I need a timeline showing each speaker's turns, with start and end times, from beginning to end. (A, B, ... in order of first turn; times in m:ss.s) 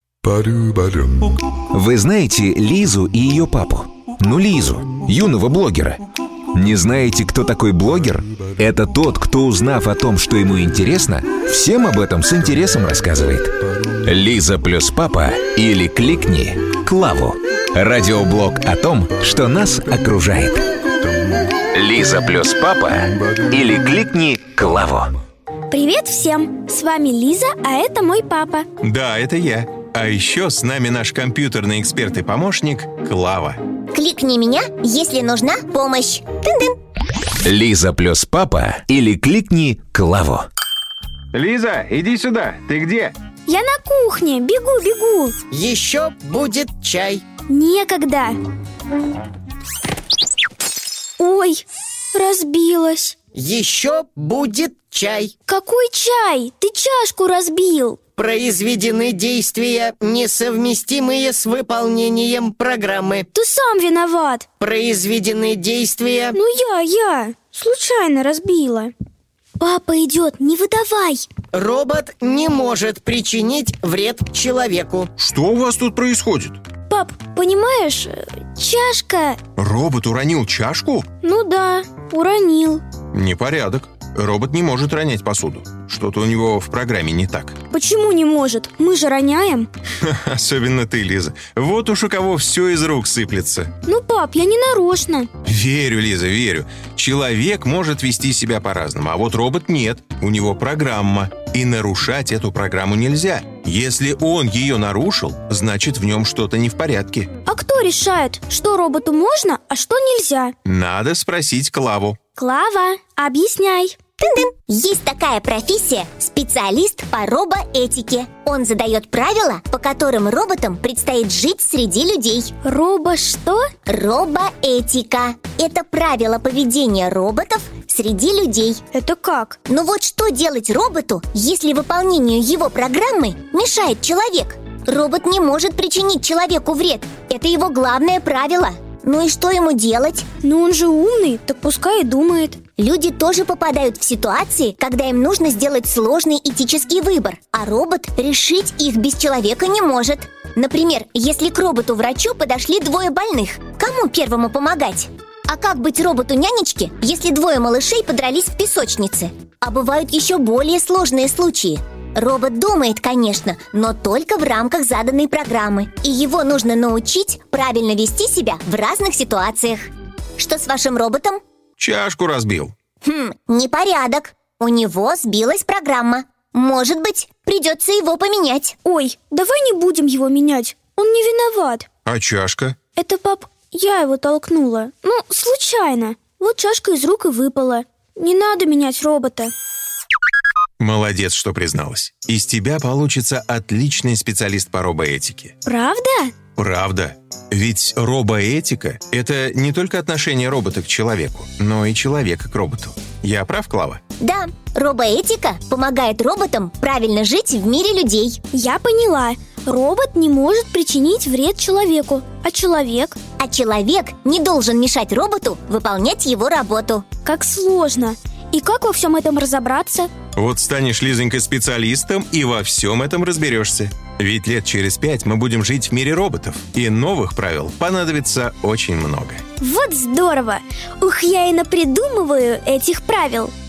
0:01.7-0:06.0 A
0:06.5-0:20.6 A
0:21.7-0:25.2 A
0:25.7-0:28.6 B
0:28.8-0:33.6 C
0:33.9-0:36.8 D
0:37.4-0:40.5 A
0:41.3-0:43.2 C
0:43.5-0:45.3 B
0:45.5-0:47.2 E
0:47.5-0:48.4 B
0:51.2-0:53.2 B
0:53.3-0:55.3 E
0:55.5-0:58.0 B
0:58.2-1:03.3 E
1:03.3-1:04.4 B
1:04.6-1:06.4 E
1:06.3-1:08.9 B
1:09.6-1:11.2 B
1:11.5-1:15.1 E
1:15.2-1:16.6 C
1:16.9-1:19.4 B
1:19.6-1:21.1 C
1:21.2-1:22.8 B
1:23.1-1:27.6 C
1:27.7-1:29.7 B
1:30.0-1:33.7 C
1:33.8-1:35.3 B
1:35.4-1:47.3 C
1:47.5-1:50.5 B
1:50.6-1:52.2 C
1:52.4-1:54.0 B
1:54.2-2:02.5 D
2:02.6-2:03.7 B
2:03.9-2:08.8 D
2:08.9-2:09.6 B
2:09.7-2:20.2 D
2:20.4-2:22.6 B
2:22.8-2:51.4 D
2:51.8-2:52.7 C
2:53.0-2:58.8 D
2:58.8-3:01.9 B
3:02.1-3:02.8 C
3:03.0-3:09.5 B
3:10.8-3:15.5 C
3:15.6-3:16.3 B
3:16.6-3:24.0 C
3:24.2-3:28.4 D
3:28.5-3:33.2 B
3:33.4-3:37.1 D
3:37.2-3:40.1 B
3:40.4-3:49.4 C
3:49.6-3:53.5 B